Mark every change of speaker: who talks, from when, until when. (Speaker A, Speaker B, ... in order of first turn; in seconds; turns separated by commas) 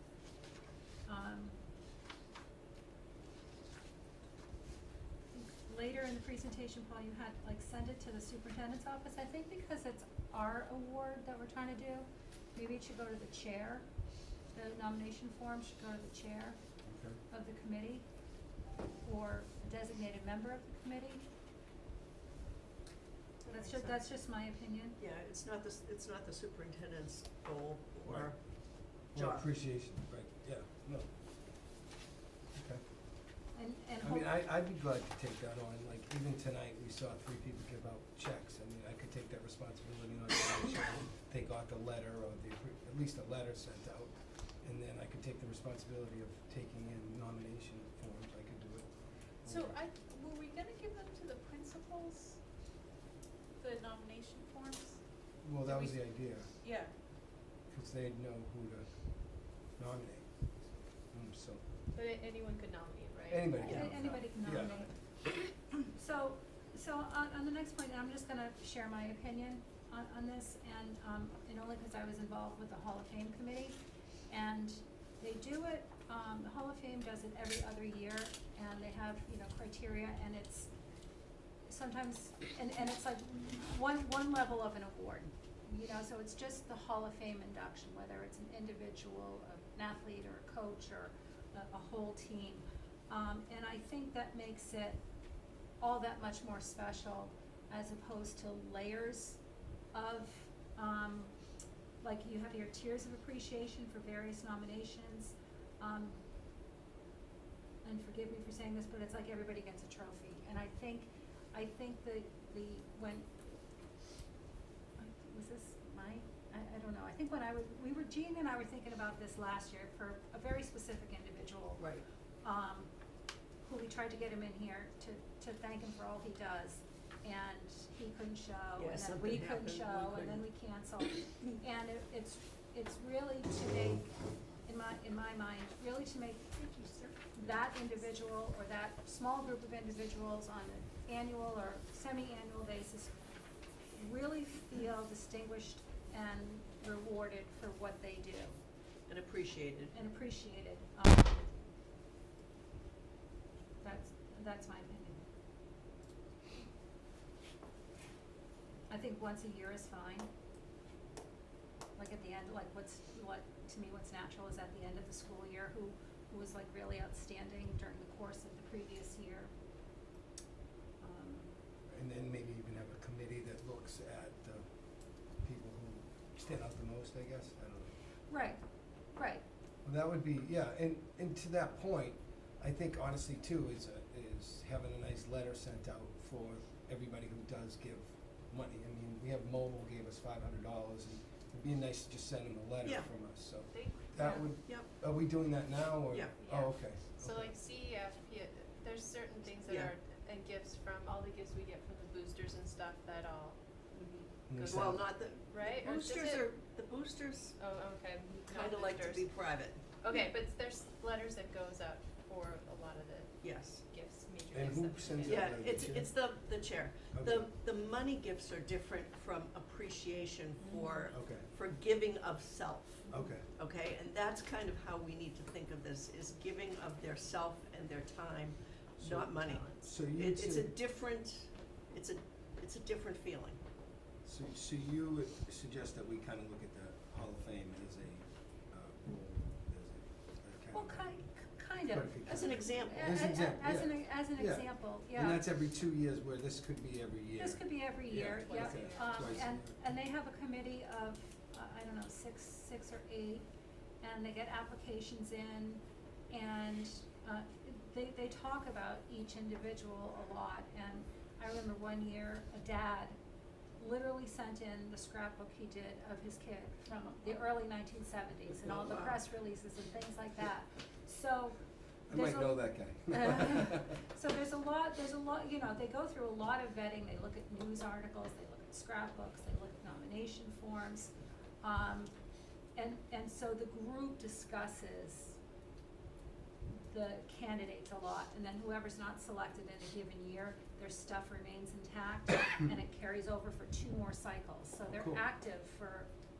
Speaker A: 1.1-1.6, Speaker A: 5.3-13.9, Speaker A: 14.5-16.6, Speaker B: 16.8-17.2, Speaker A: 17.3-18.1, Speaker A: 19.0-21.2, Speaker A: 23.4-25.0, Speaker C: 23.5-23.9, Speaker D: 25.0-29.4, Speaker B: 28.0-31.1, Speaker B: 32.5-32.8, Speaker A: 33.5-34.4, Speaker B: 34.0-49.8, Speaker E: 49.4-52.4, Speaker E: 53.6-56.9, Speaker B: 55.4-56.9, Speaker B: 57.6-61.6, Speaker C: 61.9-63.8, Speaker B: 63.3-64.9, Speaker A: 63.6-80.7, Speaker D: 63.6-64.0, Speaker A: 81.6-95.0, Speaker A: 95.8-101.4, Speaker A: 102.0-106.2, Speaker A: 107.8-113.3, Speaker A: 115.0-122.9, Speaker D: 121.8-122.0, Speaker A: 123.6-143.2, Speaker D: 128.8-130.4, Speaker E: 136.9-137.2, Speaker A: 143.9-148.6, Speaker D: 149.1-149.9, Speaker A: 149.9-151.5, Speaker A: 153.8-155.2, Speaker A: 158.9-160.3, Speaker A: 162.0-169.5, Speaker A: 171.0-171.6, Speaker B: 171.9-174.7, Speaker B: 175.2-177.9, Speaker A: 178.3-179.4, Speaker B: 179.8-197.5, Speaker D: 192.8-193.1, Speaker C: 193.7-194.5, Speaker D: 194.7-194.9, Speaker D: 196.1-196.6, Speaker C: 196.4-203.6, Speaker D: 199.7-199.9, Speaker D: 203.9-207.6, Speaker C: 204.4-206.5, Speaker B: 204.5-205.1, Speaker C: 207.6-215.7, Speaker D: 208.4-210.0, Speaker D: 213.4-213.9, Speaker B: 214.5-216.4, Speaker D: 215.2-233.6, Speaker B: 217.1-217.5, Speaker C: 220.6-221.1, Speaker B: 221.1-221.5, Speaker B: 223.1-223.5, Speaker B: 229.0-230.8, Speaker B: 234.2-241.2, Speaker A: 240.7-245.4, Speaker B: 241.9-249.7, Speaker D: 242.2-243.2, Speaker A: 247.4-253.4, Speaker C: 248.2-249.5, Speaker A: 254.0-263.2, Speaker A: 263.8-282.1, Speaker D: 268.6-269.2, Speaker B: 272.1-273.9, Speaker A: 282.7-285.4, Speaker A: 286.7-296.1, Speaker B: 294.9-295.2